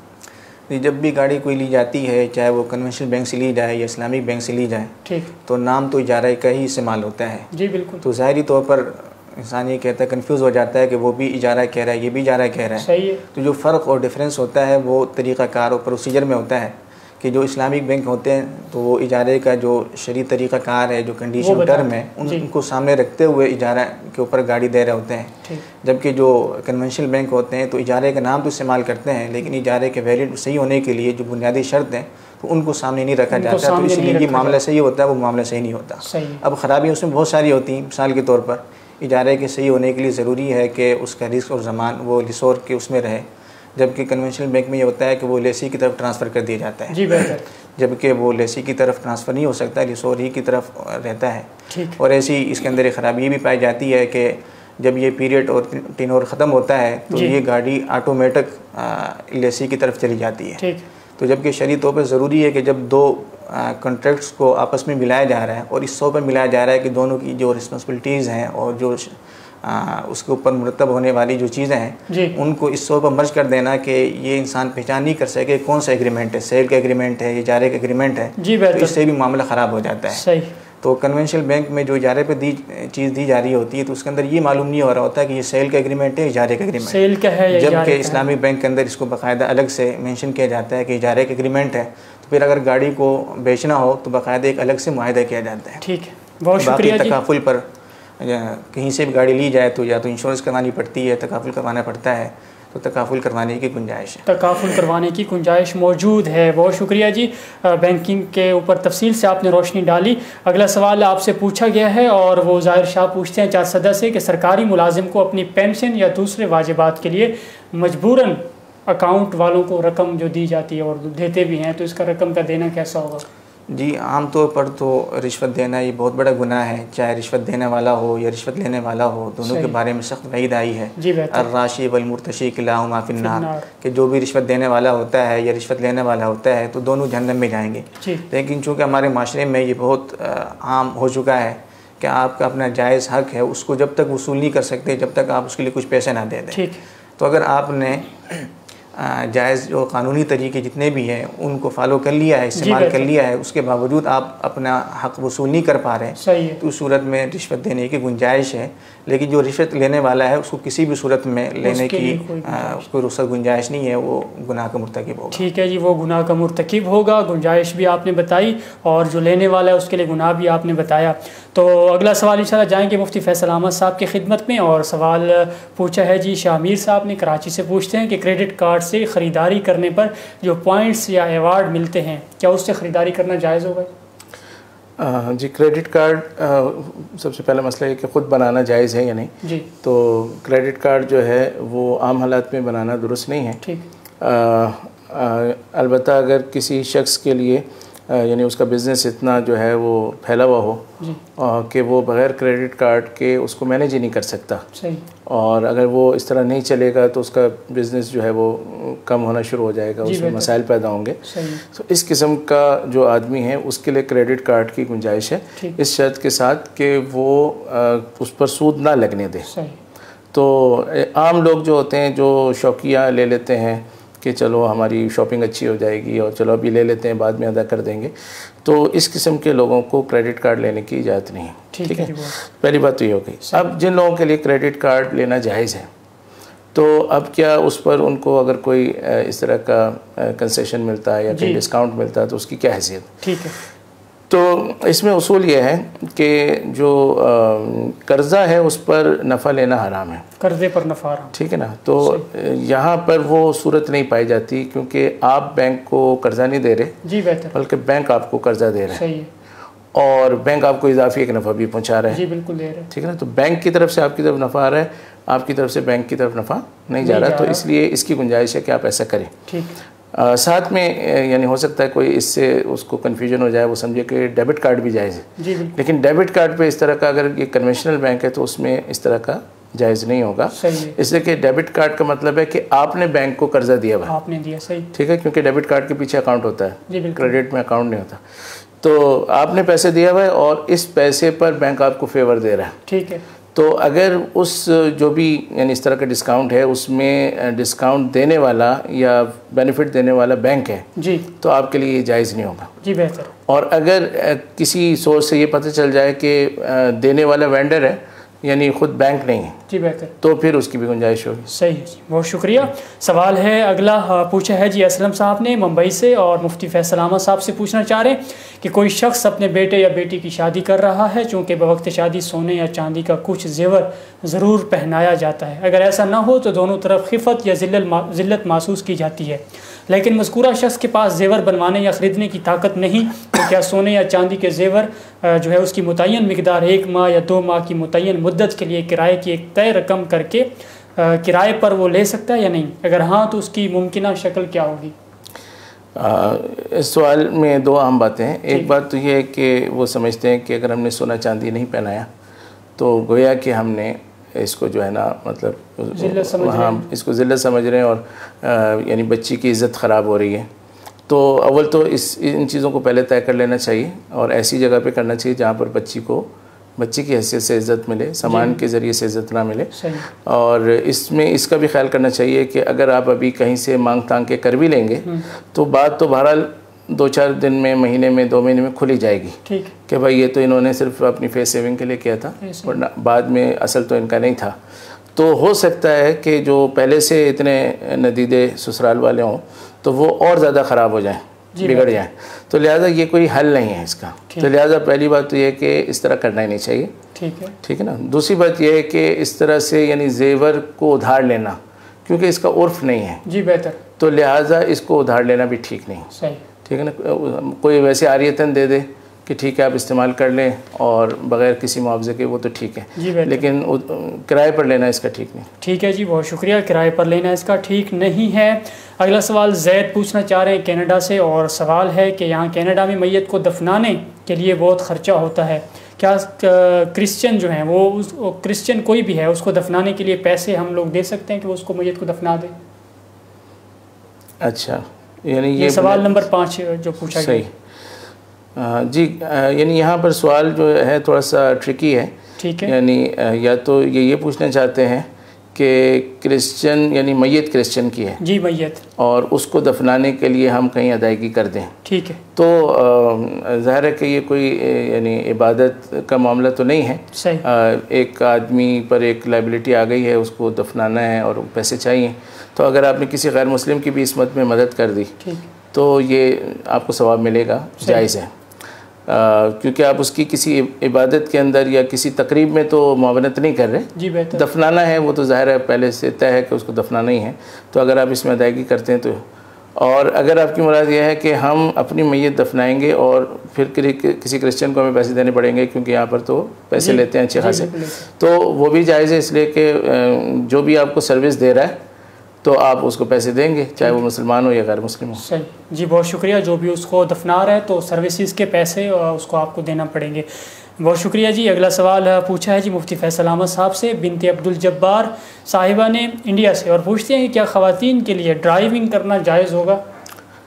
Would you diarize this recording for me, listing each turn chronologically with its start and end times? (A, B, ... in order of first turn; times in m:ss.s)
0:00.7-0:07.5 A
0:05.0-0:05.3 B
0:07.5-0:08.0 B
0:08.0-1:00.6 A
0:12.8-0:13.2 B
0:21.4-0:22.4 B
0:33.3-0:34.6 B
0:36.0-0:36.4 B
0:46.9-0:47.4 B
0:51.7-0:52.0 B
0:57.1-0:57.4 B
1:00.6-1:00.8 B
1:01.2-1:20.3 A
1:12.1-1:12.4 B
1:18.4-1:19.0 B
1:20.1-1:20.5 B
1:20.8-1:35.8 A
1:26.8-1:28.2 B
1:35.8-1:37.2 B
1:36.6-1:37.7 A
1:38.2-1:44.8 A
1:44.2-2:03.2 B
2:03.7-2:26.6 A
2:09.4-2:09.7 B
2:11.0-2:11.5 B
2:13.2-2:13.7 B
2:26.5-2:26.8 B
2:27.2-2:45.4 A
2:32.5-2:33.1 B
2:36.2-2:36.6 B
2:41.6-2:42.8 B
2:45.3-3:03.9 B
3:05.0-3:13.6 C
3:14.2-3:24.6 C
3:24.7-3:25.0 B
3:25.2-3:39.5 C
3:30.0-3:30.5 B
3:31.2-3:31.6 B
3:39.5-3:39.8 B
3:40.3-3:55.9 C
3:51.7-3:52.3 B
3:56.7-4:03.7 C
4:01.3-4:01.6 B
4:03.2-4:03.5 B
4:04.3-4:10.2 C
4:10.4-4:11.3 B
4:11.3-4:17.0 C
4:17.0-4:17.5 B
4:17.5-4:19.0 C
4:18.9-4:19.3 B
4:19.9-4:22.2 C
4:22.1-4:22.9 B
4:22.9-4:29.4 C
4:27.0-4:27.6 B
4:29.5-4:29.8 B
4:30.1-4:44.1 C
4:35.4-4:35.8 B
4:40.5-4:41.0 B
4:44.1-4:44.9 B
4:44.9-4:52.8 C
4:46.9-4:47.4 B
4:52.9-4:53.2 B
4:53.5-5:02.7 C
5:01.0-5:01.3 B
5:02.8-5:03.3 B
5:03.5-5:09.6 C
5:09.7-5:10.1 B
5:10.2-5:11.5 C
5:11.5-5:44.9 B
5:46.0-5:52.1 C
5:52.8-6:00.5 C
5:55.9-5:56.8 B
6:01.1-6:24.6 C
6:08.2-6:08.6 B
6:09.7-6:10.0 B
6:19.4-6:19.7 B
6:22.4-6:22.8 B
6:25.1-6:36.9 C
6:31.5-6:32.0 B
6:37.1-6:37.5 B
6:37.6-6:43.2 C
6:43.2-6:43.8 B
6:44.0-6:46.1 C
6:46.1-6:46.4 B
6:46.6-6:55.5 C
6:53.0-6:53.5 B
6:55.6-7:12.5 B
7:14.4-7:16.2 C
7:15.6-7:17.4 B
7:17.1-7:17.5 C
7:18.6-7:28.2 C
7:22.4-7:22.7 B
7:28.2-7:28.8 B
7:29.0-7:31.8 C
7:31.8-7:32.2 B
7:32.3-7:45.2 C
7:37.1-7:37.4 B
7:45.2-7:45.4 B
7:45.7-7:48.3 C
7:47.8-7:48.1 B
7:49.1-7:59.2 C
7:54.0-7:54.4 B
7:59.8-8:11.8 C
8:06.8-8:08.1 B
8:12.4-8:15.2 C
8:15.2-8:20.3 B
8:20.8-8:29.8 B